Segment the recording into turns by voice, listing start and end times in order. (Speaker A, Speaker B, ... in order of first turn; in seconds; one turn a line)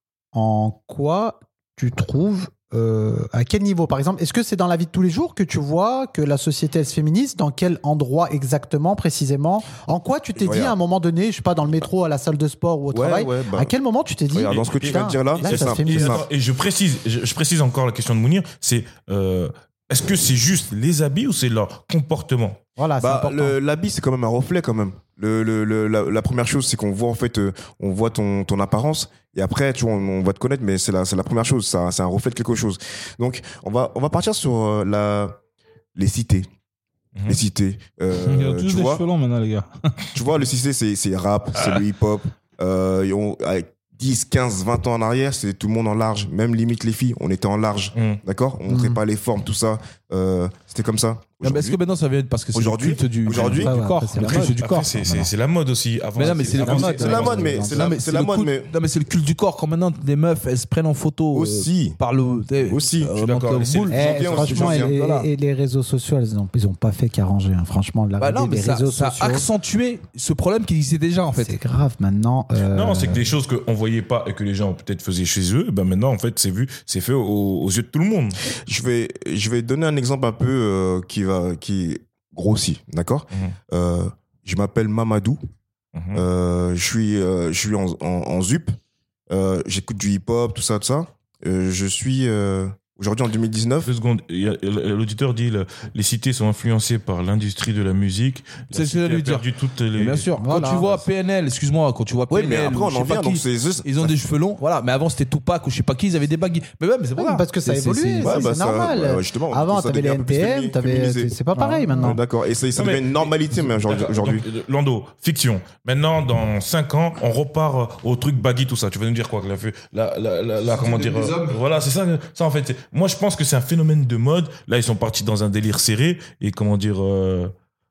Speaker A: 0.3-16.2
Speaker B: 10.3-10.7
Speaker B: 12.9-13.7
Speaker B: 14.3-16.2
Speaker C: 14.4-22.6
Speaker A: 22.8-23.6
Speaker B: 23.0-35.4
Speaker B: 35.9-36.5
Speaker C: 37.1-37.4
Speaker B: 37.2-39.0
Speaker D: 38.1-40.1
Speaker B: 40.1-51.8
Speaker C: 47.9-48.2
Speaker A: 48.7-49.0
Speaker D: 51.4-55.3
Speaker B: 52.5-53.7
Speaker A: 53.3-54.6
Speaker C: 54.2-57.4
Speaker D: 56.1-65.3
Speaker A: 56.2-57.9
Speaker B: 56.6-58.7
Speaker B: 61.3-62.0
Speaker B: 62.6-64.9
Speaker C: 63.2-64.2
Speaker A: 63.9-69.5
Speaker D: 68.2-71.5
Speaker A: 71.3-73.3
Speaker C: 72.7-78.4
Speaker B: 78.7-85.4
Speaker C: 85.9-86.2
Speaker B: 86.1-88.8
Speaker B: 89.3-93.9
Speaker C: 93.8-100.3
Speaker D: 98.7-99.5
Speaker D: 100.0-108.5
Speaker A: 100.4-100.9
Speaker B: 102.3-104.1
Speaker A: 107.2-112.2
Speaker B: 108.2-114.4
Speaker D: 111.6-112.2
Speaker C: 112.7-127.5
Speaker D: 120.7-121.6